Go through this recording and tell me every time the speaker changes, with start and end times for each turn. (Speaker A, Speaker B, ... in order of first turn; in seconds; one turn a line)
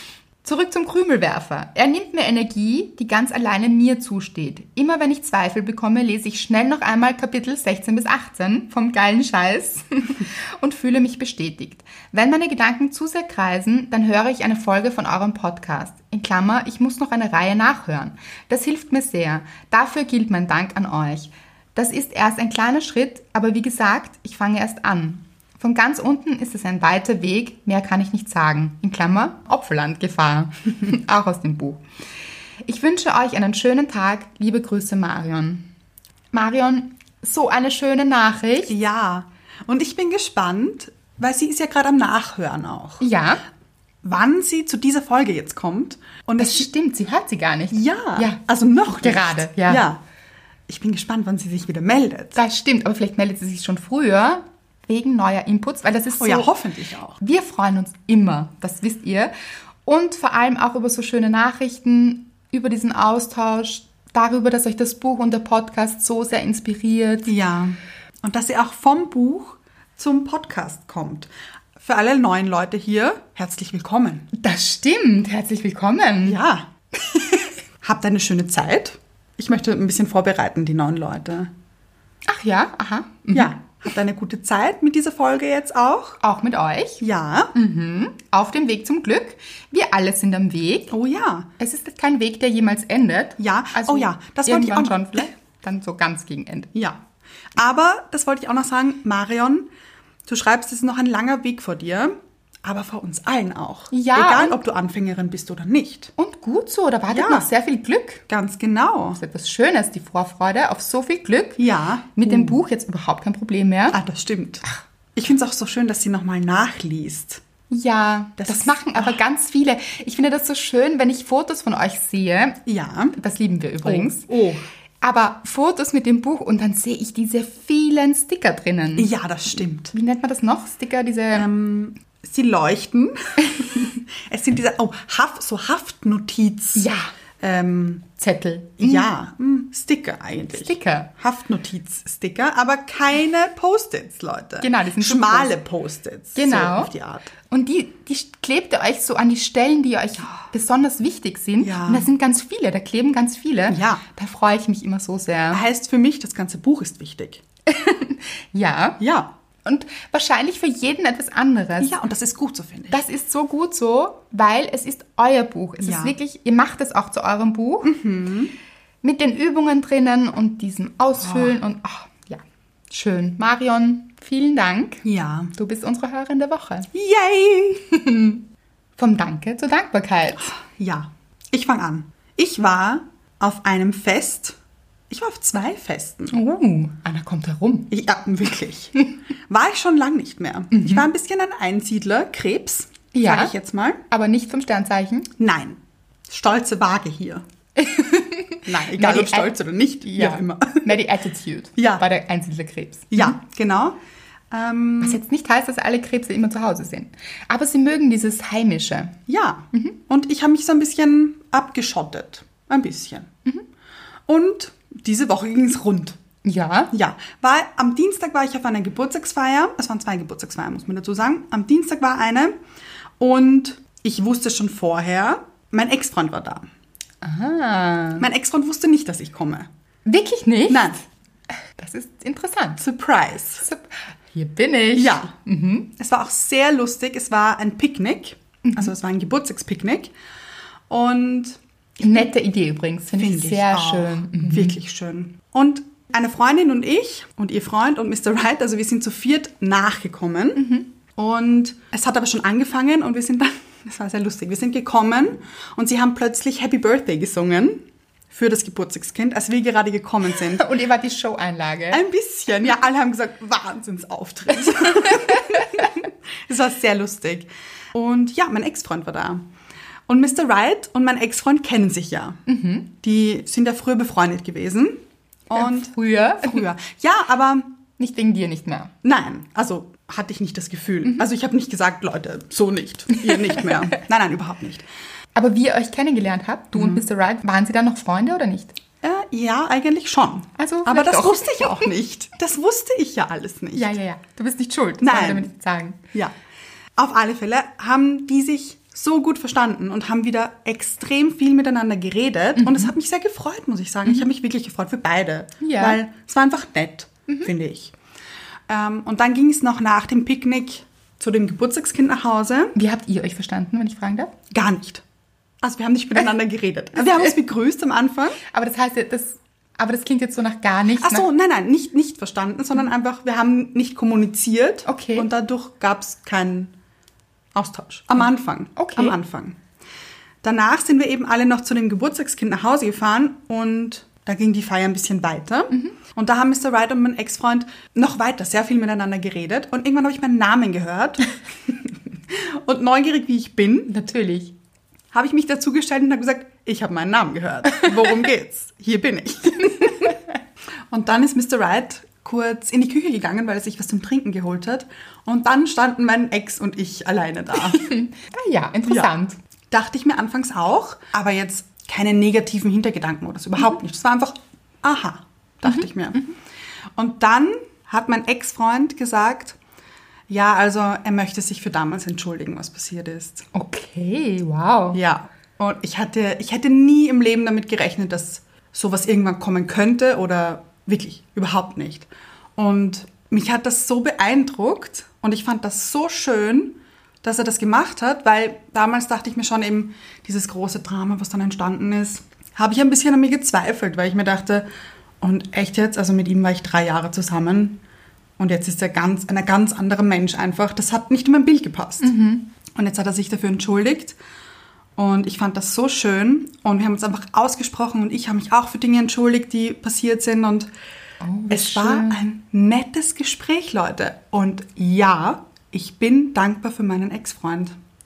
Speaker A: 0.4-31.8
Speaker A: 32.6-35.7
Speaker A: 36.3-38.7
Speaker B: 38.7-43.0
Speaker A: 43.0-43.4
Speaker B: 44.0-46.7
Speaker A: 46.4-49.9
Speaker B: 47.7-50.0
Speaker B: 50.7-52.4
Speaker A: 52.4-56.5
Speaker B: 56.2-57.2
Speaker A: 57.2-59.3
Speaker A: 59.9-67.3
Speaker B: 67.3-74.3
Speaker A: 74.3-76.4
Speaker B: 76.2-76.7
Speaker A: 77.1-77.5
Speaker B: 77.8-81.5
Speaker A: 82.3-83.6
Speaker B: 83.3-86.2
Speaker A: 86.2-87.0
Speaker B: 87.0-87.5
Speaker A: 87.5-90.9
Speaker B: 90.9-91.5
Speaker A: 91.6-96.7
Speaker B: 93.4-95.3
Speaker B: 96.7-97.0
Speaker B: 97.6-99.7
Speaker B: 100.3-106.1
Speaker A: 103.9-104.6
Speaker A: 106.2-108.2
Speaker B: 107.1-107.5
Speaker B: 108.3-109.2
Speaker A: 109.2-111.6
Speaker B: 111.6-112.6
Speaker A: 112.2-114.0
Speaker B: 113.9-117.4
Speaker A: 117.7-122.6
Speaker B: 118.4-119.2
Speaker B: 122.7-123.2
Speaker A: 123.1-124.3
Speaker B: 123.8-124.7
Speaker A: 125.0-129.1
Speaker B: 129.0-129.9
Speaker A: 129.9-131.5
Speaker B: 131.3-136.9
Speaker A: 136.8-137.1
Speaker B: 137.4-138.1
Speaker A: 138.2-139.1
Speaker B: 138.8-147.3
Speaker A: 140.5-141.1
Speaker A: 144.6-145.5
Speaker A: 146.3-146.9
Speaker A: 147.5-155.6
Speaker B: 151.6-152.1
Speaker B: 153.7-154.0
Speaker B: 155.5-157.4
Speaker A: 157.7-159.0
Speaker B: 159.0-159.3
Speaker A: 159.6-161.9
Speaker B: 161.8-163.0
Speaker A: 162.9-167.9
Speaker B: 165.8-166.2
Speaker B: 167.8-168.5
Speaker A: 169.0-176.9
Speaker B: 171.2-171.6
Speaker B: 175.1-175.5
Speaker B: 176.9-177.8
Speaker A: 177.8-178.4
Speaker A: 179.0-180.4
Speaker B: 180.4-184.6
Speaker B: 185.1-186.3
Speaker A: 186.3-187.9
Speaker B: 187.9-188.9
Speaker B: 189.5-194.0
Speaker A: 190.7-191.1
Speaker A: 193.1-193.5
Speaker A: 194.1-195.3
Speaker B: 195.4-197.4
Speaker A: 197.8-203.4
Speaker B: 198.7-201.0
Speaker B: 201.8-202.0
Speaker B: 203.1-204.0
Speaker B: 204.5-205.2
Speaker A: 205.0-209.2
Speaker B: 209.3-213.3
Speaker A: 209.7-210.0
Speaker B: 214.3-216.2
Speaker A: 216.4-216.9
Speaker B: 216.9-222.5
Speaker B: 223.2-226.7
Speaker A: 227.2-228.3
Speaker B: 228.2-229.7
Speaker A: 230.1-231.0
Speaker B: 230.7-231.0
Speaker A: 231.8-232.8
Speaker B: 232.8-233.7
Speaker A: 233.6-235.9
Speaker B: 234.9-235.3
Speaker B: 236.0-240.1
Speaker A: 238.7-238.9
Speaker B: 240.9-242.2
Speaker A: 242.0-244.8
Speaker B: 243.2-260.7
Speaker A: 250.6-250.9
Speaker A: 260.4-262.0
Speaker B: 261.9-269.4
Speaker A: 265.0-265.4
Speaker B: 270.1-272.4
Speaker A: 272.5-272.9
Speaker B: 273.0-277.7
Speaker A: 275.5-276.6
Speaker A: 278.0-278.9
Speaker B: 279.0-284.9
Speaker A: 285.4-288.8
Speaker B: 286.8-287.0
Speaker B: 289.0-294.0
Speaker A: 290.6-291.9
Speaker A: 293.8-296.0
Speaker B: 295.0-295.5
Speaker B: 297.0-307.9
Speaker A: 302.6-302.9
Speaker A: 305.6-306.0
Speaker B: 308.7-312.8
Speaker A: 312.8-314.3
Speaker B: 314.5-315.0
Speaker B: 315.6-318.4
Speaker A: 318.5-321.3
Speaker B: 321.0-326.7
Speaker A: 324.9-325.3
Speaker B: 327.5-329.6
Speaker A: 328.8-329.2
Speaker B: 330.4-343.9
Speaker A: 343.9-344.5
Speaker B: 345.1-350.2
Speaker B: 350.9-357.9
Speaker A: 357.6-359.4
Speaker B: 359.7-366.3
Speaker B: 367.0-369.6
Speaker B: 370.3-373.5
Speaker A: 373.5-375.0
Speaker B: 374.9-394.7
Speaker B: 395.2-397.8
Speaker B: 398.4-402.1
Speaker A: 402.0-402.5
Speaker B: 402.7-404.2
Speaker B: 405.0-410.7
Speaker A: 411.2-412.2
Speaker B: 411.5-417.8